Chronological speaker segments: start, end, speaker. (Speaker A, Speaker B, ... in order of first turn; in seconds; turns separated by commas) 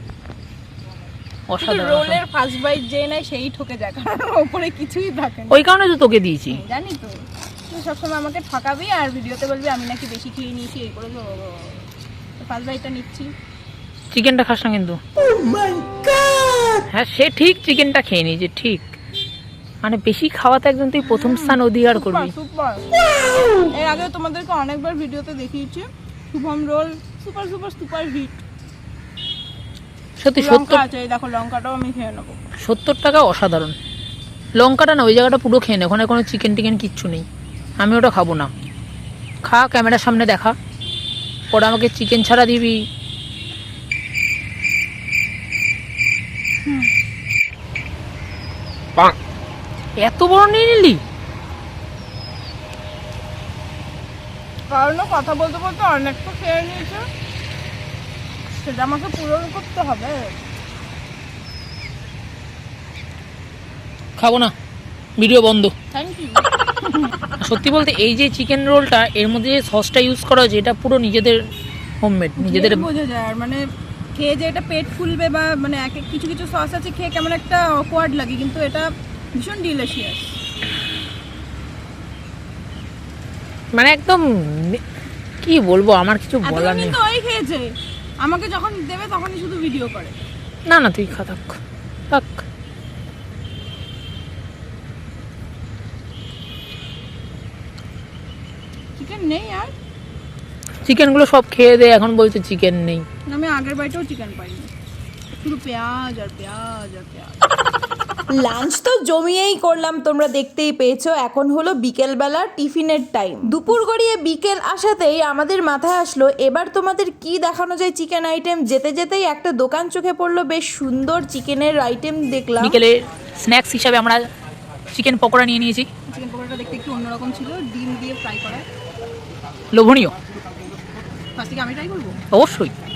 Speaker A: 1.5-2.2, Speaker B: 1.6-5.6, Speaker A: 5.5-6.6, Speaker B: 6.5-7.1, Speaker B: 7.7-11.9, Speaker B: 12.4-13.3, Speaker A: 14.1-15.0, Speaker C: 15.6-15.8, Speaker A: 16.9-18.9, Speaker A: 19.8-22.3, Speaker B: 21.0-22.9, Speaker B: 23.7-28.4, Speaker A: 30.2-30.8, Speaker B: 30.4-32.4, Speaker A: 32.6-33.8, Speaker A: 34.6-37.2, Speaker A: 37.8-38.5, Speaker A: 39.4-40.5, Speaker A: 41.5-42.8, Speaker A: 50.0-51.0, Speaker B: 54.7-57.1, Speaker B: 58.5-60.4, Speaker A: 64.2-64.5, Speaker A: 65.2-65.7, Speaker B: 65.9-67.2, Speaker A: 67.4-71.4, Speaker A: 72.0-72.8, Speaker B: 72.4-73.6, Speaker B: 74.2-80.3, Speaker A: 83.7-84.8, Speaker A: 85.4-87.0, Speaker B: 86.4-87.7, Speaker B: 88.2-90.2, Speaker A: 90.7-91.6, Speaker A: 92.1-92.5, Speaker B: 99.0-99.7, Speaker A: 100.8-103.0, Speaker B: 103.3-104.7, Speaker B: 105.4-107.5, Speaker C: 108.3-122.8, Speaker A: 122.6-124.2, Speaker A: 124.9-125.9, Speaker B: 126.1-128.7, Speaker A: 129.7-130.1, Speaker B: 131.3-132.2, Speaker A: 132.3-132.7